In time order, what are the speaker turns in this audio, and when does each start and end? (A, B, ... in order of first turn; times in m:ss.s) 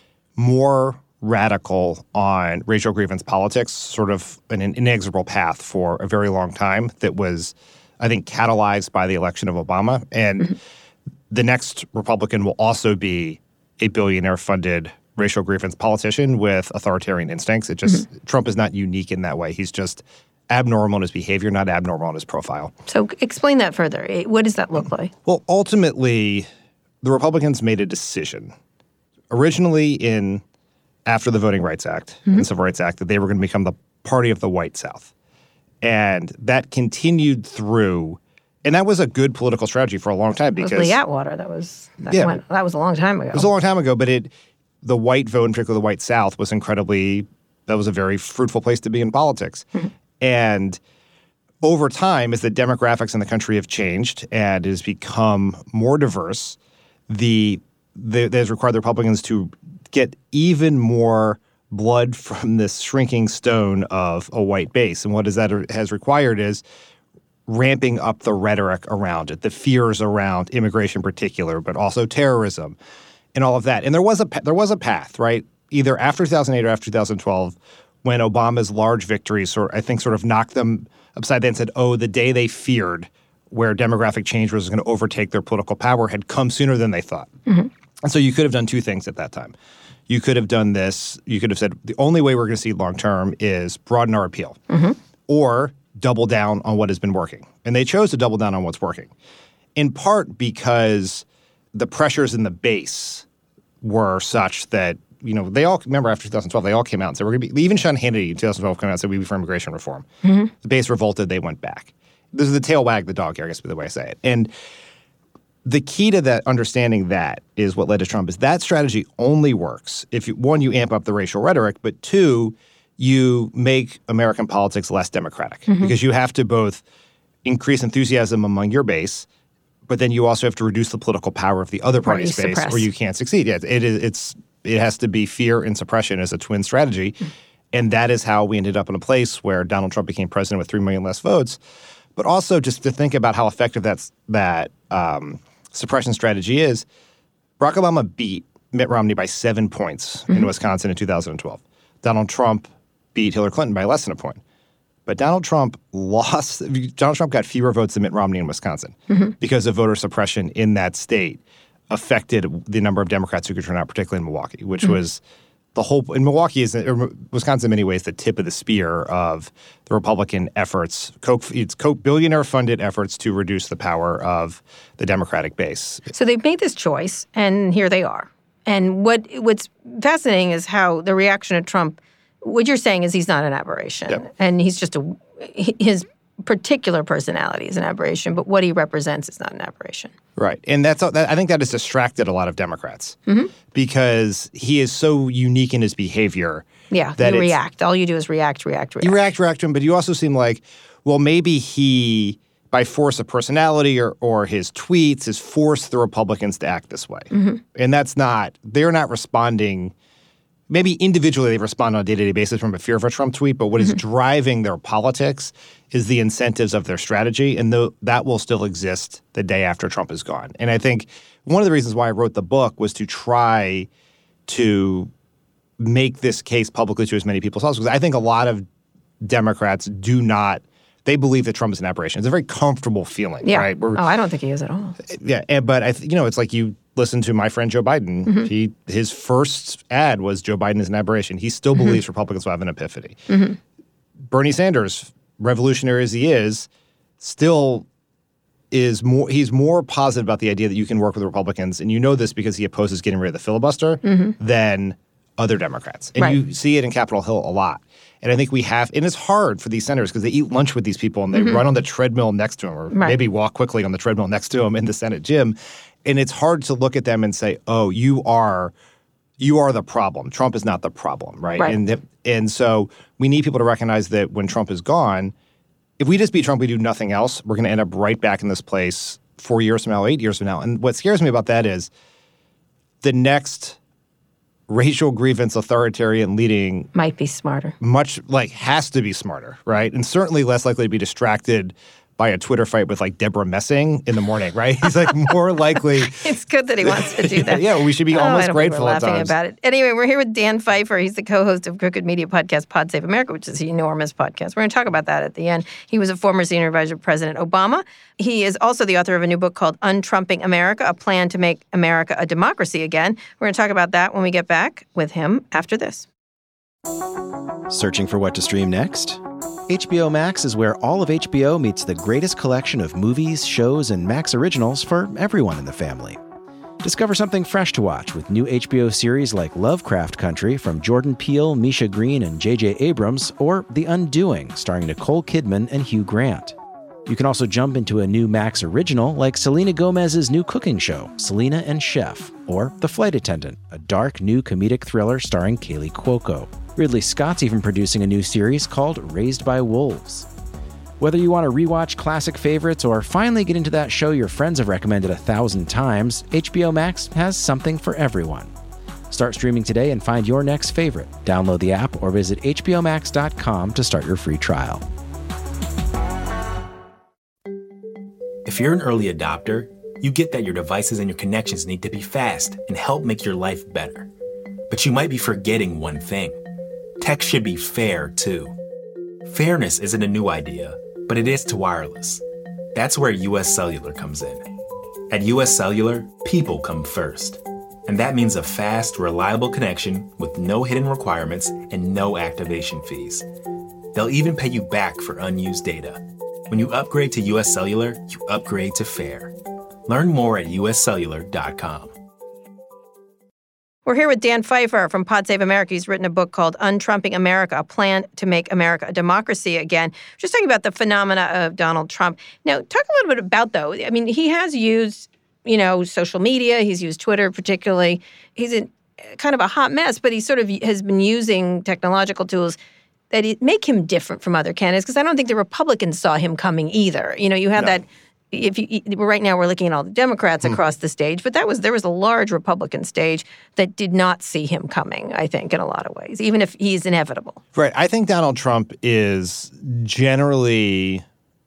0:00.4-0:10.6 A
0:11.3-0:22.7 A
0:22.9-0:25.1 B
0:25.2-0:26.5 A
0:27.0-0:28.5 A
0:29.3-0:30.4 A
0:31.0-0:35.1 A
0:35.8-0:41.0 A
0:40.6-0:43.5 B
0:42.1-0:42.4 A
0:43.3-0:44.3 A
0:44.8-0:49.6 A
0:50.2-0:50.8 A
0:51.6-0:56.6 A
0:57.1-1:06.6 A
1:07.5-1:12.8 A
1:13.3-1:27.3 A
1:28.0-1:29.5 A
1:30.1-1:34.6 A
1:34.7-1:35.0 B
1:35.3-1:39.1 A
1:39.8-1:43.2 A
1:43.8-1:50.0 A
1:50.2-1:50.5 B
1:50.6-1:54.5 A
1:55.6-2:06.8 A
2:05.7-2:05.9 B
2:07.4-2:09.3 A
2:09.9-2:17.2 A
2:12.0-2:12.9 B
2:17.7-2:21.6 A
2:22.2-2:26.8 A
2:27.6-2:34.4 A
2:35.0-2:45.2 A
2:45.7-2:56.1 A
2:56.1-3:10.1 B
3:10.4-3:13.2 A
3:13.7-3:16.6 A
3:16.9-3:19.2 B
3:17.2-3:17.6 A
3:19.0-3:29.9 A
3:27.3-3:27.6 B
3:30.7-3:43.9 A
3:44.4-3:45.1 A
3:45.8-3:48.6 A
3:49.2-3:54.0 A
3:53.4-3:55.0 B
3:55.0-4:03.2 A
4:03.3-4:03.6 B
4:04.3-4:06.7 A
4:07.2-4:07.9 A
4:08.7-4:28.7 A
4:14.0-4:14.3 B
4:22.9-4:23.2 B
4:29.4-4:35.3 A
4:36.0-4:41.9 A
4:43.0-4:43.8 A
4:44.7-4:46.9 A
4:46.9-4:47.8 B
4:47.8-4:56.2 A
4:56.1-5:16.1 B
4:56.8-4:59.3 A
5:17.7-5:26.2 C
5:26.8-5:36.5 C
5:37.0-5:50.3 C
5:51.0-5:58.5 C
5:59.1-6:04.8 C
6:08.4-6:14.1 D
6:14.7-6:16.4 D
6:17.0-6:18.5 D
6:19.2-6:22.2 D
6:22.7-6:24.4 D
6:25.1-6:33.2 D
6:33.9-6:39.3 D
6:39.8-6:41.9 D
6:43.8-7:02.6 B
7:03.1-7:17.4 B
7:17.5-7:21.0 A